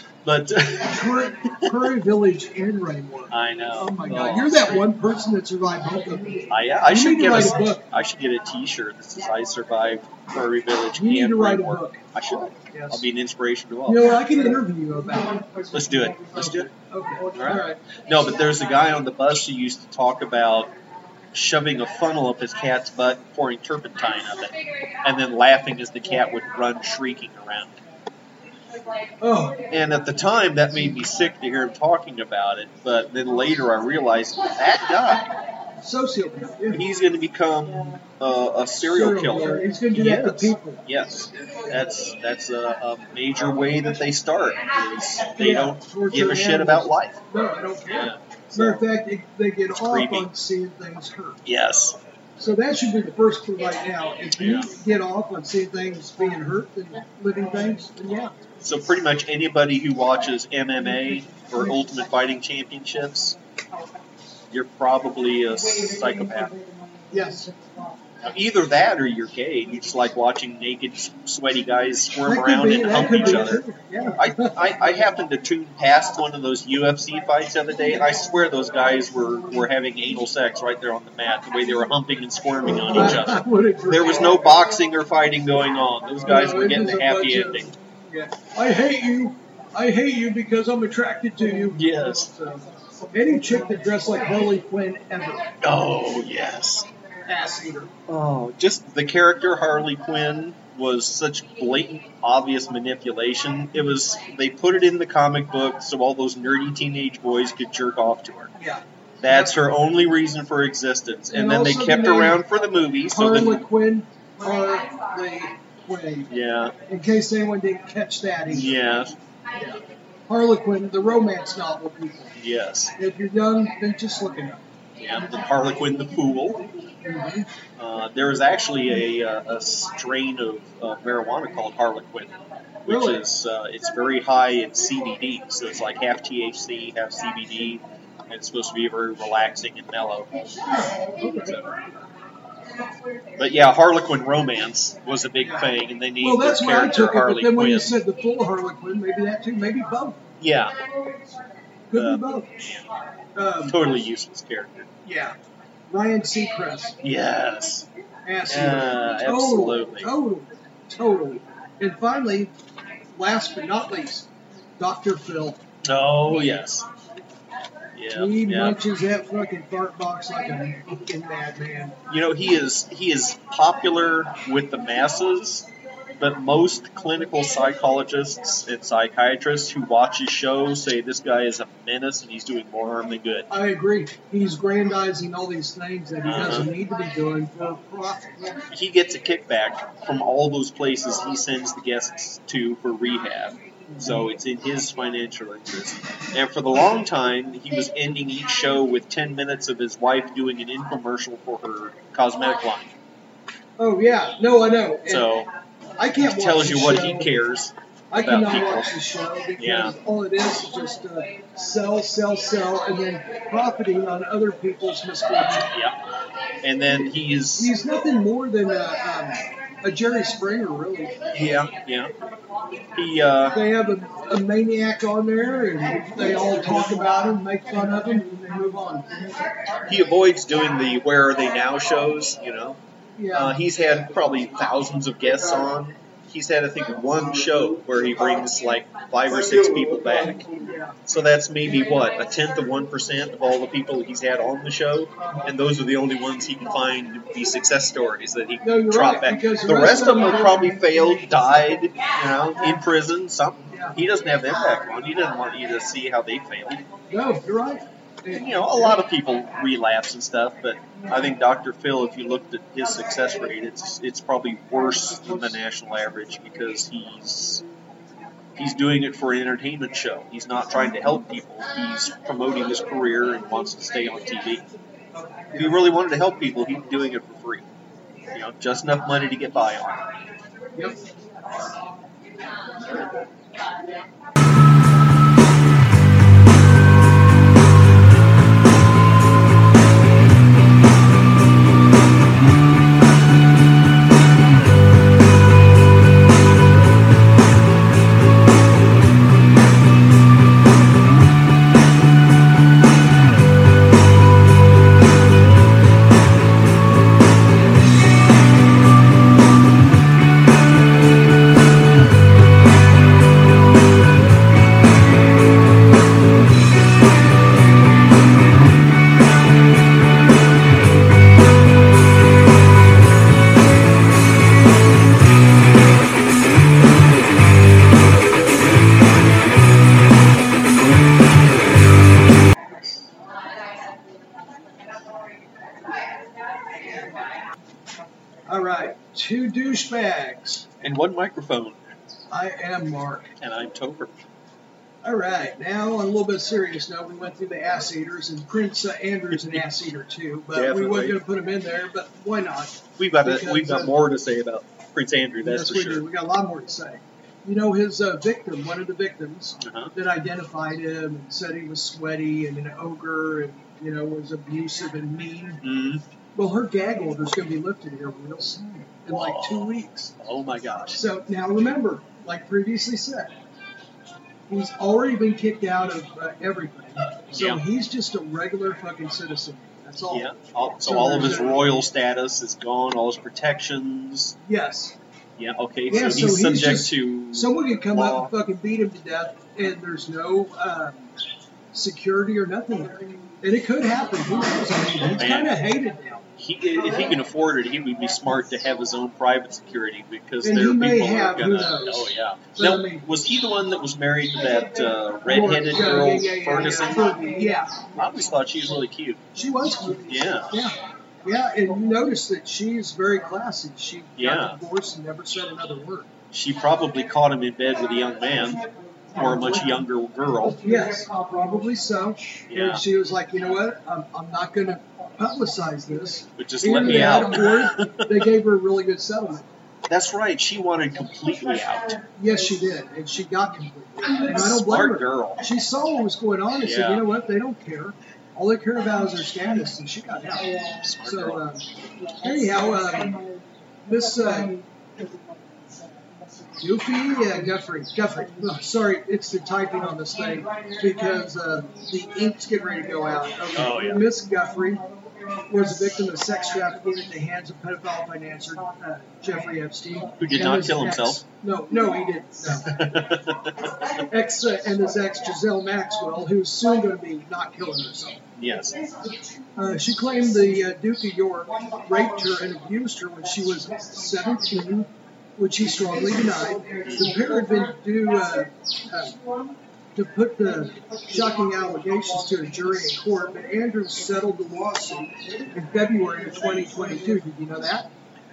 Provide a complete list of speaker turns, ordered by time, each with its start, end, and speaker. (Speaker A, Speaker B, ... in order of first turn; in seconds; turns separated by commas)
Speaker A: 0.2-1.7, Speaker B: 0.8-7.8, Speaker A: 3.3-4.9, Speaker A: 6.5-14.1, Speaker B: 10.9-12.0, Speaker B: 12.7-13.0, Speaker B: 13.9-15.7, Speaker A: 15.7-16.7, Speaker B: 16.3-17.8, Speaker A: 17.3-20.7, Speaker A: 21.3-27.8, Speaker B: 29.2-29.6, Speaker A: 29.7-35.3, Speaker B: 35.8-36.8, Speaker A: 36.7-47.2, Speaker B: 38.9-40.8, Speaker B: 45.4-51.4, Speaker A: 47.9-48.8, Speaker A: 49.8-50.3, Speaker A: 51.4-52.0, Speaker B: 52.4-58.3, Speaker A: 54.4-54.7, Speaker A: 58.6-63.4, Speaker A: 64.5-66.5, Speaker B: 67.1-67.5, Speaker A: 68.2-73.6, Speaker B: 72.2-74.5, Speaker A: 74.2-87.7, Speaker B: 82.8-84.4, Speaker B: 86.2-95.4, Speaker A: 91.7-92.3, Speaker A: 95.6-96.9, Speaker B: 97.2-97.9, Speaker A: 98.1-108.5, Speaker B: 108.6-109.5, Speaker A: 109.2-113.7, Speaker B: 111.3-112.4, Speaker B: 113.1-116.3, Speaker A: 116.3-116.7, Speaker B: 116.9-118.7, Speaker A: 118.5-119.2, Speaker B: 119.5-122.3, Speaker A: 122.3-122.9, Speaker B: 123.0-124.6, Speaker A: 125.0-126.7, Speaker B: 127.0-127.5, Speaker A: 127.8-132.3, Speaker A: 132.8-140.3, Speaker B: 132.9-133.2, Speaker B: 140.7-141.6, Speaker A: 141.4-141.7, Speaker A: 143.4-148.0, Speaker B: 145.4-150.2, Speaker A: 150.4-150.8, Speaker B: 151.9-152.5, Speaker A: 151.9-152.9, Speaker B: 153.3-153.8, Speaker A: 153.6-154.9, Speaker B: 155.0-155.3, Speaker B: 155.9-156.9, Speaker A: 157.0-157.9, Speaker B: 158.2-162.5, Speaker A: 158.5-160.1, Speaker B: 163.1-165.6, Speaker A: 165.8-166.9, Speaker A: 167.9-168.8, Speaker B: 168.1-171.9, Speaker A: 172.1-175.7, Speaker A: 176.2-183.5, Speaker B: 183.5-188.6, Speaker A: 186.2-186.7, Speaker A: 188.7-202.9, Speaker B: 193.9-194.2, Speaker B: 203.8-205.3, Speaker A: 205.1-205.5, Speaker B: 206.0-207.3, Speaker A: 206.1-208.9, Speaker B: 208.1-215.7, Speaker A: 209.6-209.9, Speaker A: 215.5-216.0, Speaker A: 216.6-217.7, Speaker B: 217.6-221.2, Speaker A: 221.3-222.1, Speaker A: 222.9-223.6, Speaker B: 223.5-229.2, Speaker A: 229.9-232.8, Speaker B: 233.2-233.6, Speaker A: 233.3-240.5, Speaker B: 240.6-241.0, Speaker A: 241.1-256.9, Speaker B: 245.2-245.5, Speaker B: 248.6-250.8, Speaker B: 253.7-254.0, Speaker B: 257.1-258.9, Speaker A: 258.3-267.6, Speaker A: 268.6-274.7, Speaker A: 275.5-277.7, Speaker A: 278.3-280.1, Speaker B: 280.7-281.0, Speaker B: 338.5-340.7, Speaker A: 340.8-341.8, Speaker B: 342.3-343.3, Speaker A: 343.4-344.2, Speaker B: 345.0-353.9, Speaker A: 349.3-349.6, Speaker A: 350.5-351.2, Speaker A: 353.0-356.0, Speaker B: 355.4-365.6, Speaker A: 359.6-359.9, Speaker A: 365.6-366.0, Speaker B: 366.3-370.1, Speaker A: 369.1-371.0, Speaker B: 370.9-373.3, Speaker B: 374.5-380.3, Speaker A: 377.3-377.6, Speaker A: 380.1-384.4, Speaker B: 380.8-381.6, Speaker B: 384.4-384.9, Speaker A: 385.4-388.3, Speaker B: 385.9-391.1, Speaker B: 391.7-396.2, Speaker A: 395.1-395.5, Speaker A: 396.4-407.1, Speaker B: 400.4-403.0, Speaker B: 405.3-407.9, Speaker A: 407.9-409.3, Speaker B: 409.3-416.1, Speaker A: 410.1-410.5, Speaker A: 414.2-414.6, Speaker A: 416.3-418.6, Speaker A: 419.1-420.6, Speaker B: 419.2-419.5, Speaker B: 420.6-429.5, Speaker A: 422.5-422.8, Speaker A: 426.4-428.3, Speaker A: 429.9-432.0, Speaker B: 432.1-440.5, Speaker A: 434.2-435.4, Speaker A: 436.6-437.0, Speaker A: 440.8-441.4, Speaker B: 441.0-441.6, Speaker B: 442.2-443.2, Speaker B: 443.8-444.6, Speaker B: 446.6-454.8, Speaker A: 453.5-454.1, Speaker B: 455.5-462.9, Speaker A: 460.2-461.2, Speaker A: 462.7-463.6, Speaker B: 464.0-468.2, Speaker A: 468.4-468.8, Speaker B: 469.6-479.2, Speaker A: 476.9-477.1, Speaker B: 479.9-487.9